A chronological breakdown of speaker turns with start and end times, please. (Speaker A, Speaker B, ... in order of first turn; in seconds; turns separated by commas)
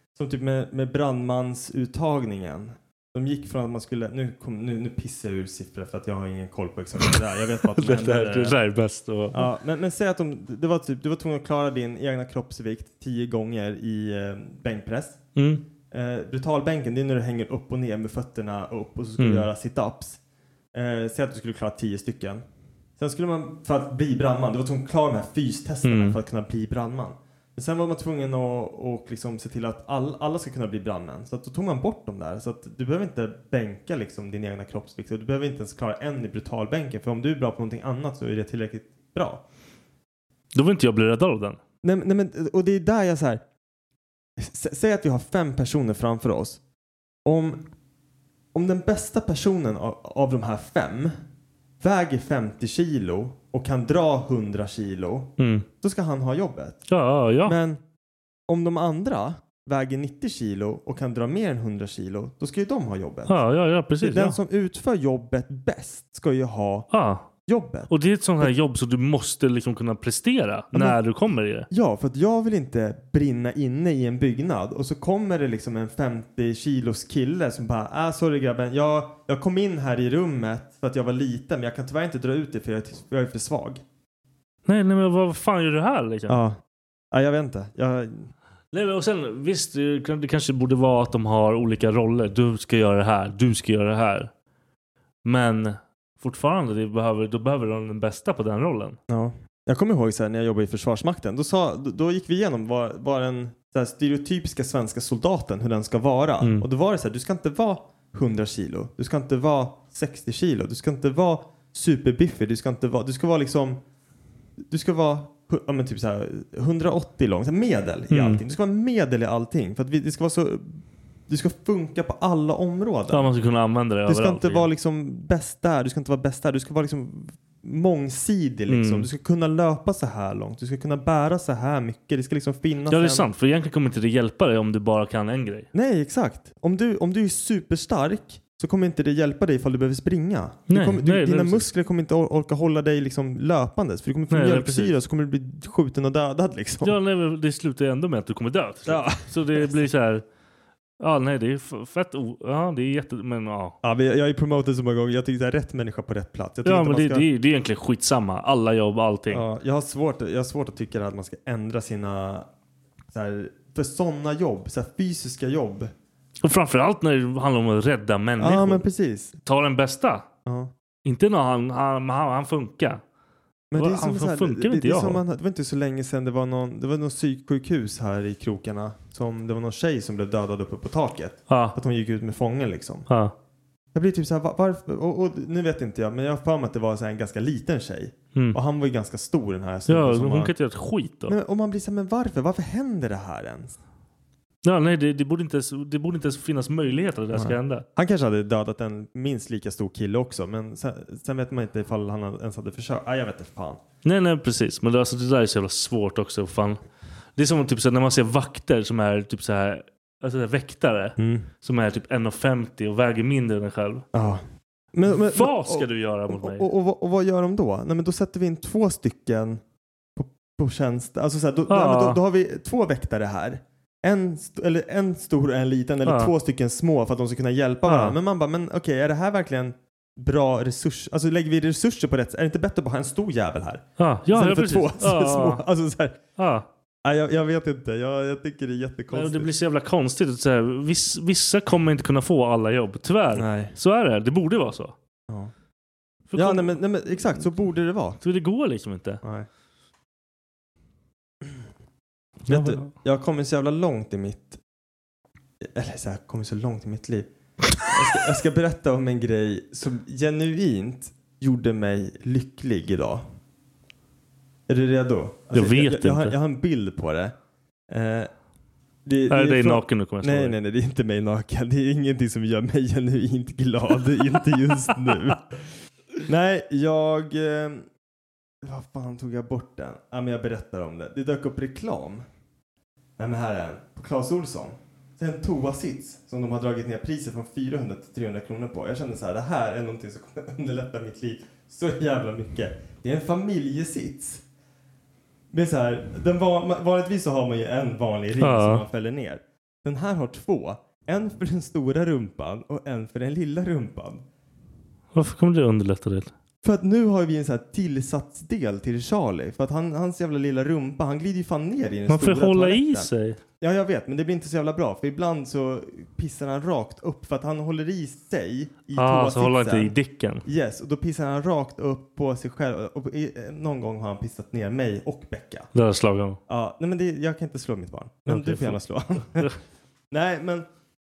Speaker A: 0.1-8.6, Speaker B: 7.8-9.5, Speaker A: 9.3-15.2, Speaker B: 15.3-15.6, Speaker A: 15.9-20.2, Speaker B: 19.2-19.5, Speaker A: 20.7-22.4, Speaker A: 23.0-39.4, Speaker B: 25.8-26.2, Speaker B: 40.5-41.6, Speaker A: 41.8-43.4, Speaker A: 44.4-46.6, Speaker A: 47.2-47.6, Speaker A: 48.5-51.1, Speaker A: 51.8-56.8, Speaker B: 55.4-55.6, Speaker B: 56.9-57.6, Speaker A: 57.5-57.8, Speaker A: 58.5-63.4, Speaker B: 63.3-64.4, Speaker A: 64.0-66.9, Speaker B: 66.9-67.3, Speaker A: 67.5-68.5, Speaker B: 67.9-71.7, Speaker A: 71.7-83.8, Speaker B: 84.7-86.4, Speaker A: 86.3-86.6, Speaker A: 87.1-88.3, Speaker B: 88.7-94.3, Speaker B: 95.2-99.0, Speaker A: 99.1-113.8, Speaker B: 106.4-106.7, Speaker A: 114.7-123.3, Speaker B: 118.1-118.4, Speaker B: 123.1-124.7, Speaker A: 124.1-133.2, Speaker B: 128.7-129.1, Speaker B: 132.9-135.7, Speaker A: 135.7-146.9, Speaker B: 140.7-141.7, Speaker B: 144.3-144.9, Speaker B: 146.8-150.2, Speaker A: 148.8-149.7, Speaker B: 151.0-153.8, Speaker A: 153.8-157.2, Speaker B: 156.6-159.4, Speaker A: 159.3-162.5, Speaker A: 163.1-165.9, Speaker B: 166.4-168.8, Speaker A: 168.4-169.3, Speaker B: 169.4-170.2, Speaker A: 170.4-170.7, Speaker B: 171.0-173.0, Speaker A: 173.7-183.1, Speaker B: 173.7-175.2, Speaker B: 181.5-181.8, Speaker B: 183.1-183.3, Speaker A: 183.9-190.5, Speaker B: 189.9-191.4, Speaker A: 191.3-193.8, Speaker B: 194.6-197.8, Speaker A: 197.3-203.8, Speaker B: 204.0-206.8, Speaker B: 207.4-214.1, Speaker A: 211.2-211.4, Speaker A: 214.1-214.4, Speaker A: 214.9-219.6, Speaker B: 215.1-216.7, Speaker A: 220.2-236.2, Speaker B: 221.7-222.2, Speaker B: 226.0-226.3, Speaker B: 227.8-228.2, Speaker B: 234.0-235.6, Speaker B: 236.4-236.7, Speaker A: 237.0-239.5, Speaker B: 239.1-244.9, Speaker A: 243.3-243.7, Speaker B: 246.3-246.8, Speaker A: 246.3-248.2, Speaker B: 248.2-249.2, Speaker A: 249.2-249.5, Speaker B: 252.5-252.9, Speaker A: 252.5-254.6, Speaker A: 255.6-257.3, Speaker A: 257.8-263.2, Speaker A: 264.7-267.3, Speaker B: 265.5-266.3, Speaker A: 267.9-268.3, Speaker A: 269.1-275.6, Speaker B: 269.3-270.6, Speaker A: 276.2-277.9, Speaker A: 278.6-282.2, Speaker A: 283.2-294.4, Speaker A: 295.5-304.2, Speaker B: 298.4-298.8, Speaker B: 305.1-306.3, Speaker A: 306.6-319.9, Speaker B: 312.1-313.4, Speaker B: 318.9-320.4, Speaker A: 320.4-325.7, Speaker B: 325.7-326.4, Speaker A: 326.5-329.5, Speaker B: 328.3-328.8, Speaker A: 330.1-330.6